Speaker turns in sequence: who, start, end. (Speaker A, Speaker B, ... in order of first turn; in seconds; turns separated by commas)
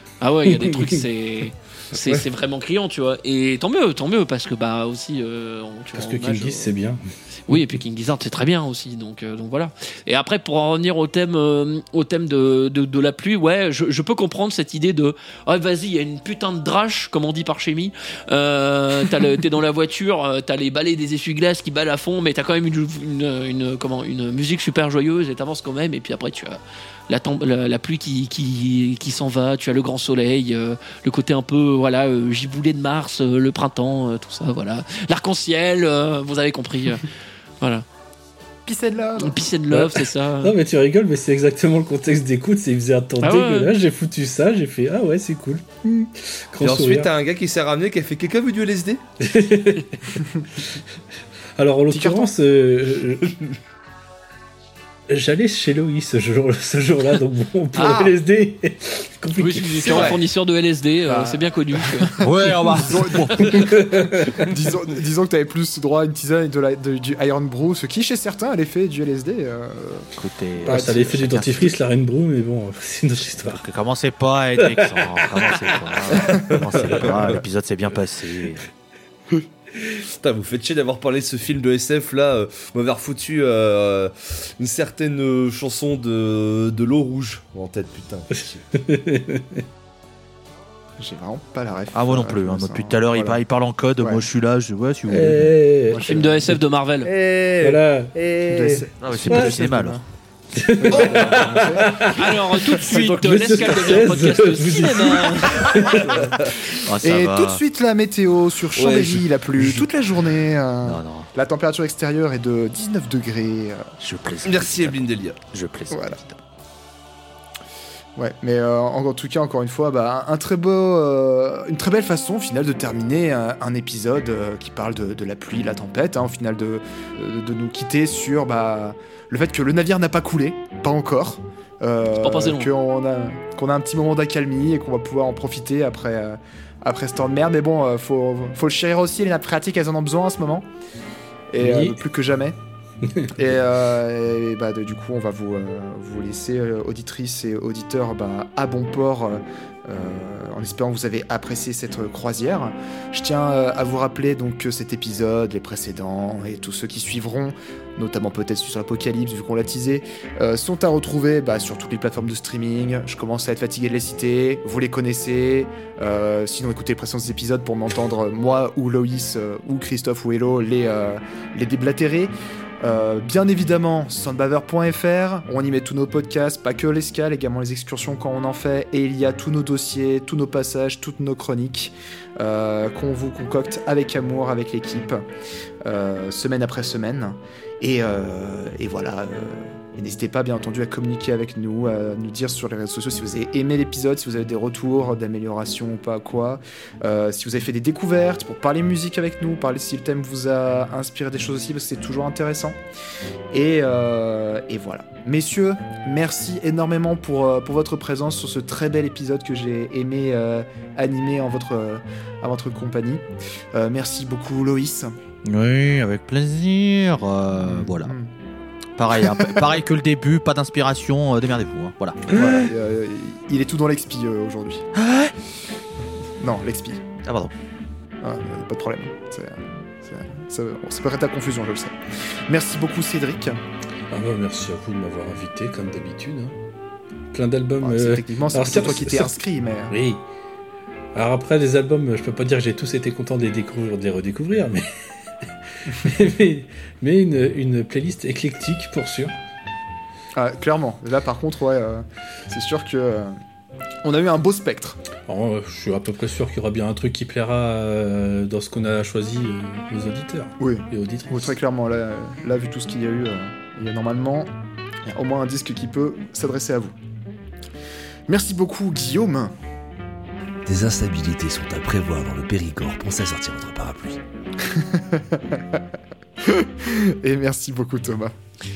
Speaker A: 0.2-6.7, Speaker B: 0.5-1.0, Speaker B: 6.0-7.6, Speaker A: 7.5-37.0, Speaker A: 37.6-37.9, Speaker C: 38.6-39.4, Speaker A: 39.2-40.5, Speaker B: 39.7-47.1, Speaker A: 43.2-43.7, Speaker D: 46.6-49.0, Speaker B: 49.2-50.8, Speaker B: 51.5-53.3, Speaker C: 51.9-52.3, Speaker B: 55.1-60.2, Speaker A: 57.7-58.1, Speaker A: 59.4-62.2, Speaker C: 59.8-60.2, Speaker C: 61.0-70.1, Speaker E: 62.2-63.8, Speaker B: 63.5-64.5, Speaker E: 70.2-71.7, Speaker B: 70.6-73.7, Speaker C: 70.7-71.3, Speaker E: 73.4-78.7, Speaker B: 74.6-75.9, Speaker D: 76.1-77.4, Speaker D: 79.8-88.6, Speaker B: 88.4-89.6, Speaker C: 91.0-93.4, Speaker E: 91.9-95.6, Speaker B: 95.1-96.1, Speaker C: 95.9-96.4, Speaker A: 96.0-97.1, Speaker D: 97.0-98.8, Speaker B: 97.6-99.6, Speaker C: 98.5-100.0, Speaker E: 99.0-100.0, Speaker B: 100.5-106.4, Speaker C: 100.8-102.0, Speaker D: 101.0-101.4, Speaker A: 102.0-106.1, Speaker D: 102.8-104.0, Speaker E: 106.7-107.6, Speaker C: 106.7-113.9, Speaker D: 108.8-109.9, Speaker E: 110.8-111.3, Speaker E: 114.0-116.4, Speaker D: 114.4-115.4, Speaker C: 115.9-116.2, Speaker C: 118.2-140.7, Speaker A: 132.2-132.7, Speaker C: 141.5-142.6, Speaker B: 141.6-142.0, Speaker B: 143.1-143.3, Speaker C: 143.3-185.2, Speaker C: 185.8-202.8, Speaker C: 203.5-215.2, Speaker E: 215.4-218.2, Speaker C: 217.6-218.3, Speaker E: 219.0-222.7, Speaker C: 219.1-219.6, Speaker C: 222.3-224.9, Speaker E: 224.9-225.3, Speaker C: 226.4-227.1, Speaker E: 227.2-227.5, Speaker C: 228.2-232.0, Speaker C: 232.5-233.6, Speaker B: 234.1-236.6, Speaker B: 237.3-240.2, Speaker C: 237.8-239.9, Speaker B: 241.1-249.3, Speaker C: 250.3-253.3, Speaker C: 254.0-255.0, Speaker B: 255.2-261.6, Speaker C: 260.6-264.5, Speaker C: 265.1-267.0, Speaker C: 268.3-269.5, Speaker D: 270.6-274.2, Speaker C: 274.6-275.8, Speaker C: 276.4-278.3